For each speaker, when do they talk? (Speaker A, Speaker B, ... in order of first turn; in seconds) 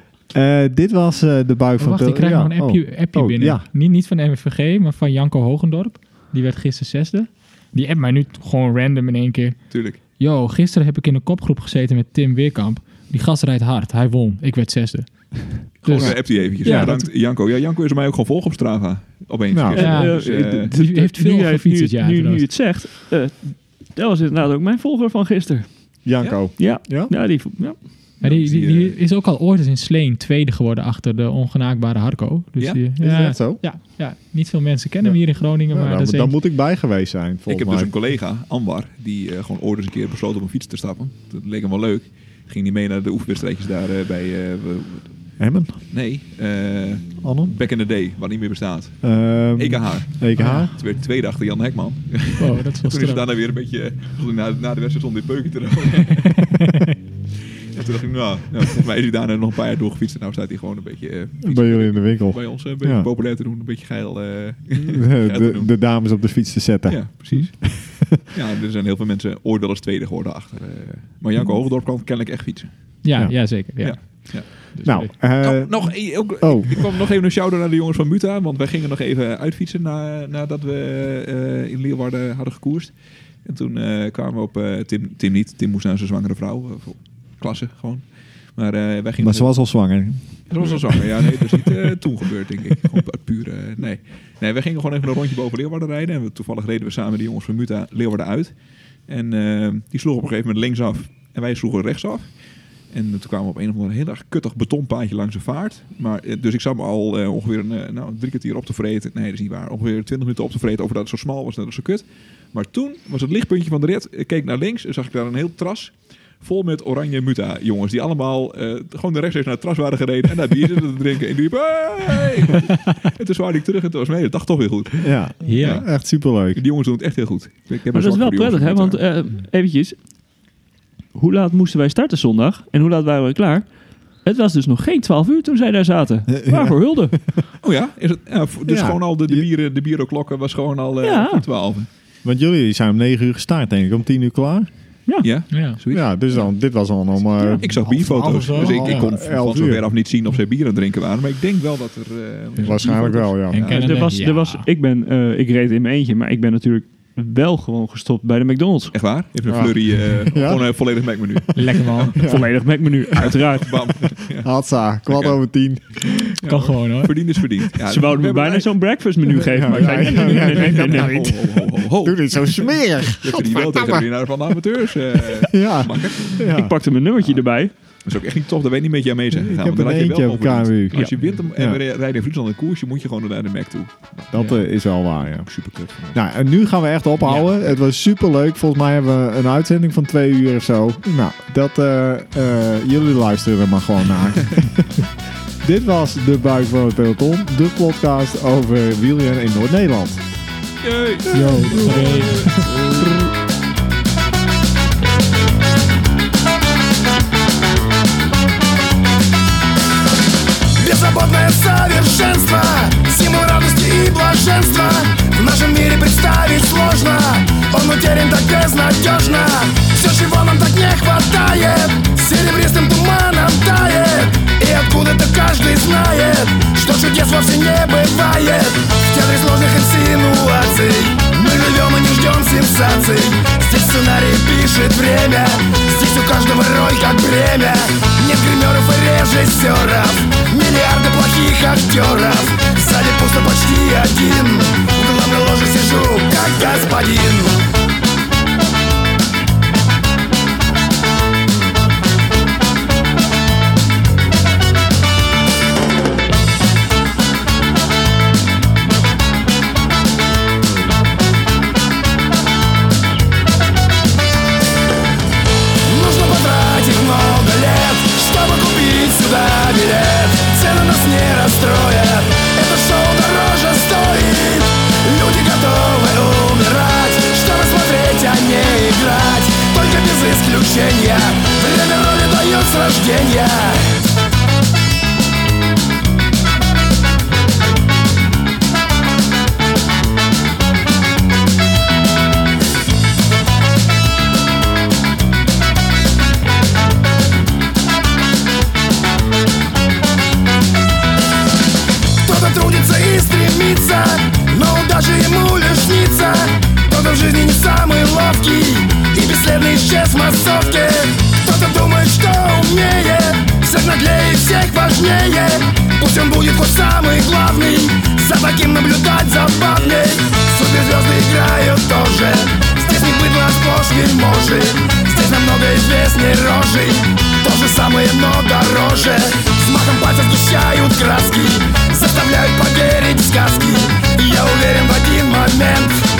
Speaker A: 0.3-3.6, 16.0-16.9, 19.5-19.8, 26.0-27.1, 33.0-33.8, 35.0-37.9, 45.4-45.8, 47.2-47.5, 49.0-50.7, 61.4-63.1, 64.8-68.2, 73.1-73.4, 74.8-76.8, 89.2-90.8, 125.0-126.6, 136.3-136.7, 138.7-139.4, 142.2-144.7, 145.9-149.8, 152.6-153.7, 159.5-160.7, 161.3-162.5, 164.4-166.1, 169.4-174.1, 175.4-176.7, 179.3-181.8, 184.2-185.5, 186.1-195.1, 195.6-200.2
Speaker B: 1.8-9.6, 10.2-17.1, 19.8-22.5, 28.2-36.3, 50.4-50.7, 52.4-53.2, 56.1-56.6, 73.0-75.1, 125.4-125.8, 145.5-145.8, 147.4-147.7, 148.3-149.0, 152.6-154.7, 161.5-162.3, 166.4-167.1, 184.3-184.6, 201.3-202.7
Speaker C: 9.7-10.0, 15.8-20.7, 26.2-26.5, 28.2-29.0, 32.6-32.8, 37.5-56.4, 57.7-65.7, 66.9-73.1, 73.6-89.5, 90.5-102.4, 102.9-129.0, 137.6-141.9, 145.2-146.1, 147.6-153.8, 158.9-162.2, 163.2-164.5, 165.1-165.4, 166.4-168.7, 169.6-176.5, 178.0-184.1, 185.4-186.2, 200.8-203.3
Speaker D: 19.7-28.1, 127.9-130.0, 131.1-133.7, 134.2-137.3, 141.0-141.4, 145.1-145.4, 153.6-159.0, 162.2-163.8, 167.8-171.4, 176.5-177.7
Speaker E: 210.8-247.6, 265.9-283.9, 302.2-335.9